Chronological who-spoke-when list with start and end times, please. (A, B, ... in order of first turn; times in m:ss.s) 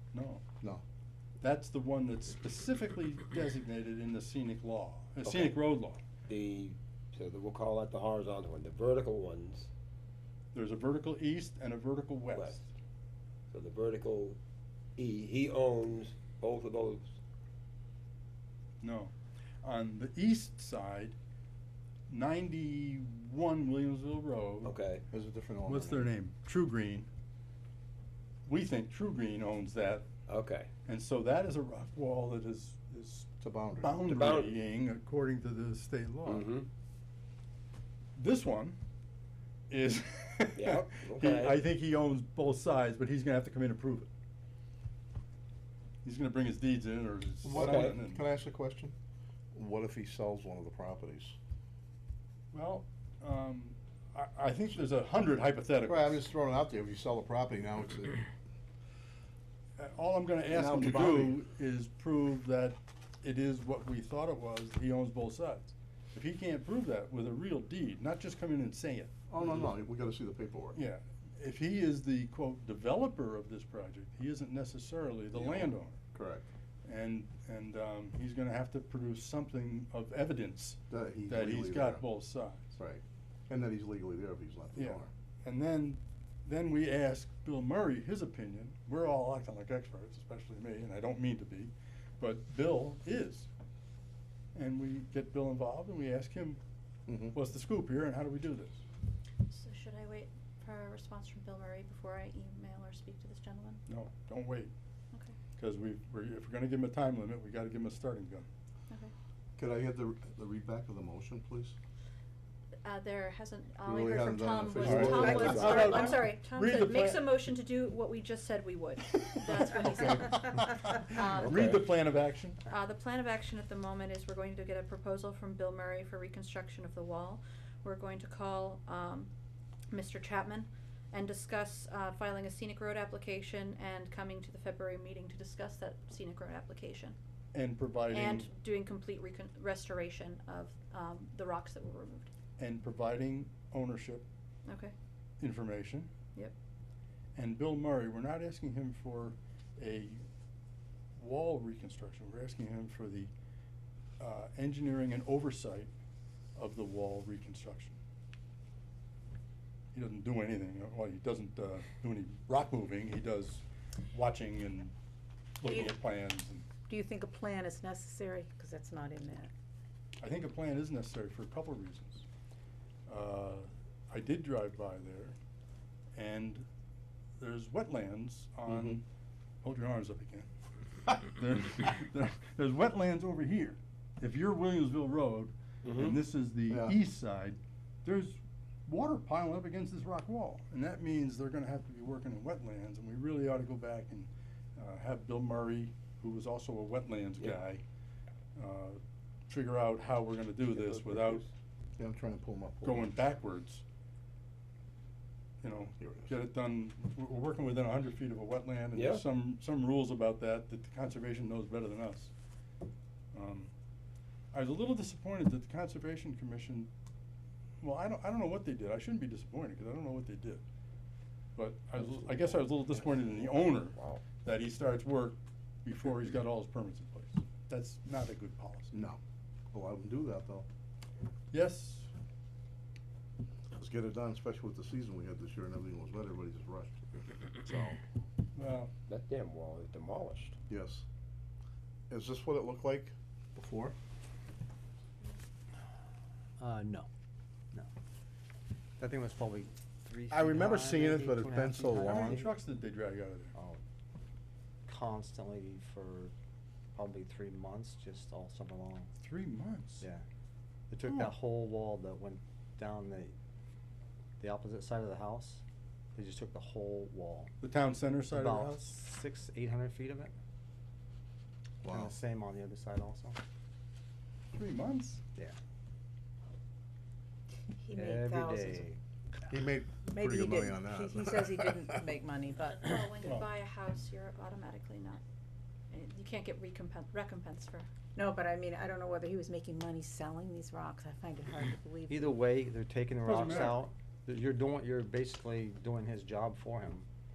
0:00.1-0:00.4 A
0:01.4-0:06.0 A
0:05.2-0:05.6 B
0:06.2-0:09.7 B
0:10.5-0:12.7 A
0:12.3-0:12.6 B
0:13.5-0:14.4 B
0:15.0-0:17.2 B
0:18.8-0:21.2 A
0:22.1-0:24.7 A
0:24.6-0:25.0 B
0:25.1-0:26.1 C
0:25.7-0:27.1 A
0:28.5-0:30.1 A
0:30.3-0:30.7 B
0:30.9-0:36.6 A
0:33.4-0:34.0 C
0:34.1-0:34.6 B
0:36.3-0:36.7 B
0:38.2-0:38.8 A
0:39.7-0:44.1 A
0:40.6-0:41.6 B
0:46.0-0:48.2 A
0:47.4-0:48.9 C
0:47.6-0:48.0 B
0:49.5-0:51.4 C
0:52.5-0:56.2 A
0:55.9-0:58.2 C
0:59.8-1:09.2 A
1:00.5-1:01.4 C
1:09.3-1:10.8 C
1:10.7-1:16.0 A
1:15.3-1:16.5 C
1:16.8-1:22.7 A
1:20.9-1:22.1 C
1:22.8-1:25.1 C
1:24.8-1:33.5 A
1:34.6-1:36.6 A
1:37.1-1:37.4 C
1:37.3-1:38.8 A
1:39.5-1:43.8 D
1:43.9-1:44.7 A
1:45.6-1:48.5 A
1:49.6-1:51.8 C
1:52.8-2:00.4 D
1:53.8-1:55.8 C
1:54.8-1:57.3 A
1:55.4-1:56.1 E
1:55.4-1:55.8 B
1:59.1-2:02.6 A
2:01.1-2:01.6 D
2:01.4-2:01.8 B
2:02.7-2:09.3 D
2:09.9-2:17.2 D
2:17.5-2:18.5 A
2:18.1-2:22.3 D
2:22.6-2:24.3 A
2:24.7-2:24.9 D
2:25.4-2:26.1 A
2:27.4-2:30.2 A
2:31.2-2:33.3 A
2:34.2-2:35.9 A
2:36.6-2:38.0 A
2:39.9-2:44.9 A
2:45.6-2:46.7 A
2:46.9-2:49.5 E
2:50.2-2:52.2 A
2:53.1-2:55.4 A
2:56.2-2:56.7 A
2:57.4-2:59.0 A
2:58.7-2:59.0 C
2:59.6-3:00.5 A
3:01.1-3:17.8 A
3:05.8-3:06.2 B
3:06.7-3:07.0 C
3:18.6-3:21.4 A
3:20.8-3:21.4 B
3:22.0-3:23.1 C
3:22.8-3:23.8 A
3:25.6-3:32.3 A
3:26.0-3:26.3 C
3:29.0-3:29.2 B
3:33.3-3:33.7 A
3:34.5-3:36.9 A
3:37.8-3:40.6 A
3:41.6-3:48.9 A
3:42.2-3:44.2 B
3:48.9-3:49.2 C
3:49.7-3:50.7 C
3:51.5-3:52.1 A
3:53.8-3:58.0 C
3:58.6-3:58.9 A
3:59.1-4:00.6 B
4:00.7-4:01.0 C
4:02.1-4:03.9 C
4:06.6-4:07.1 F
4:09.0-4:12.5 F
4:10.3-4:12.4 C
4:12.0-4:13.5 A
4:13.6-4:13.8 F
4:14.9-4:16.3 F
4:16.9-4:19.1 F
4:19.2-4:20.0 A
4:20.9-4:23.4 F
4:21.1-4:21.3 A
4:24.4-4:25.6 F
4:26.2-4:27.6 F
4:27.6-4:29.0 A
4:28.3-4:30.3 F
4:31.8-4:32.1 C
4:31.8-4:33.4 F
4:34.5-4:35.2 A
4:37.8-4:38.8 E
4:37.9-4:39.0 F
4:39.5-4:42.0 C
4:40.1-4:43.0 E
4:42.7-4:45.2 D
4:43.2-4:43.5 A
4:45.9-4:47.9 D
4:48.2-4:52.4 E
4:52.1-4:57.1 F
4:53.2-4:53.8 A